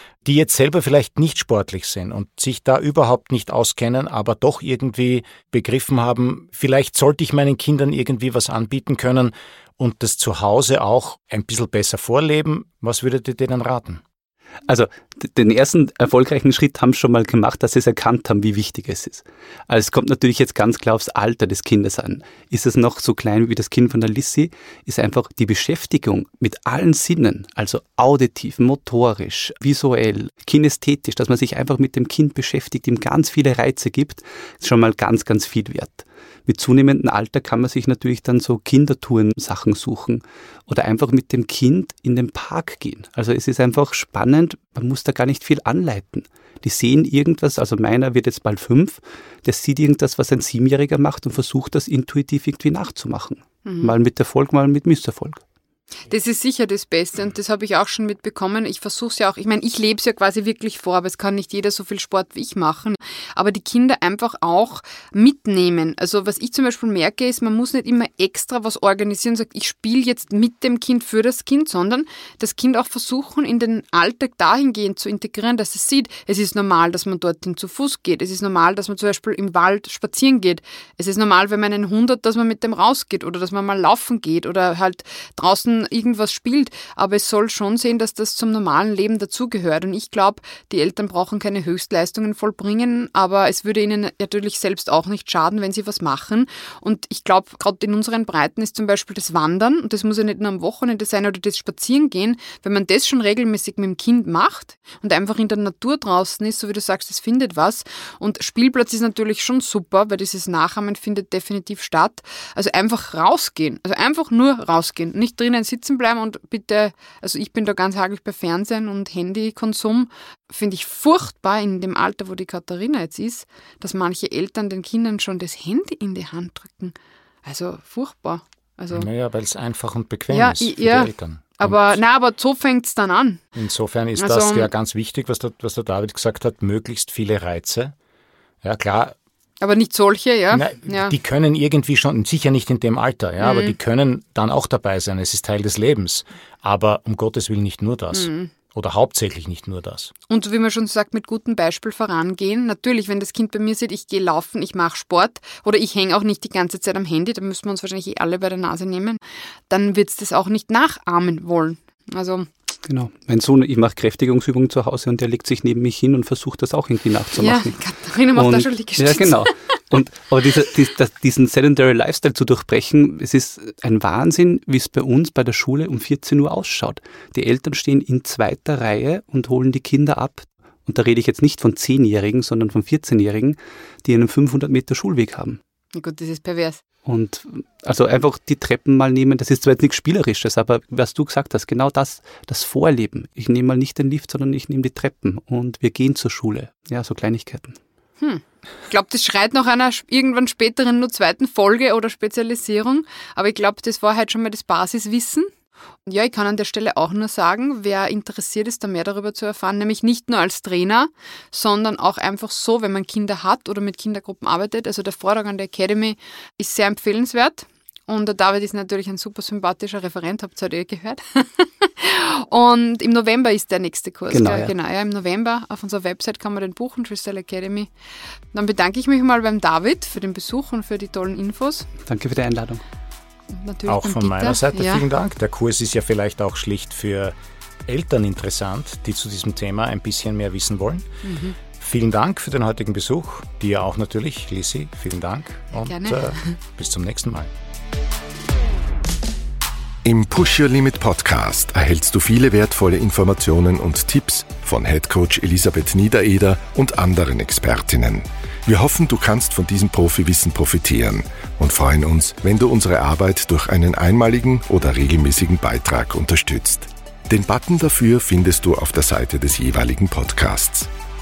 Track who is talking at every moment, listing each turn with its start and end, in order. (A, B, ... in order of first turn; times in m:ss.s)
0:00.2-0:14.0 A
0:14.7-0:55.4 B
0:53.6-0:53.9 C
0:56.1-2:09.1 C
2:08.9-2:12.0 A
2:10.3-2:13.4 C
2:13.6-2:17.9 A
2:14.2-2:14.7 C
2:18.6-2:19.1 A
2:19.6-2:21.1 C
2:20.5-2:30.1 A
2:23.4-2:23.8 C
2:28.1-2:28.5 C
2:30.3-2:42.5 C
2:42.9-2:47.7 B
2:47.4-2:49.5 C
2:48.4-3:05.6 B
3:05.9-3:06.8 C
3:07.0-3:17.8 B
3:18.2-3:25.5 C
3:26.0-3:47.9 C
3:44.3-3:44.7 B
3:48.5-3:51.9 C
3:52.1-3:52.8 B
3:53.5-3:55.0 C
3:53.9-3:57.4 A
3:57.9-4:01.1 A
4:01.2-4:01.6 C
4:01.7-4:07.5 A
4:05.8-4:06.6 C
4:10.0-4:30.9 D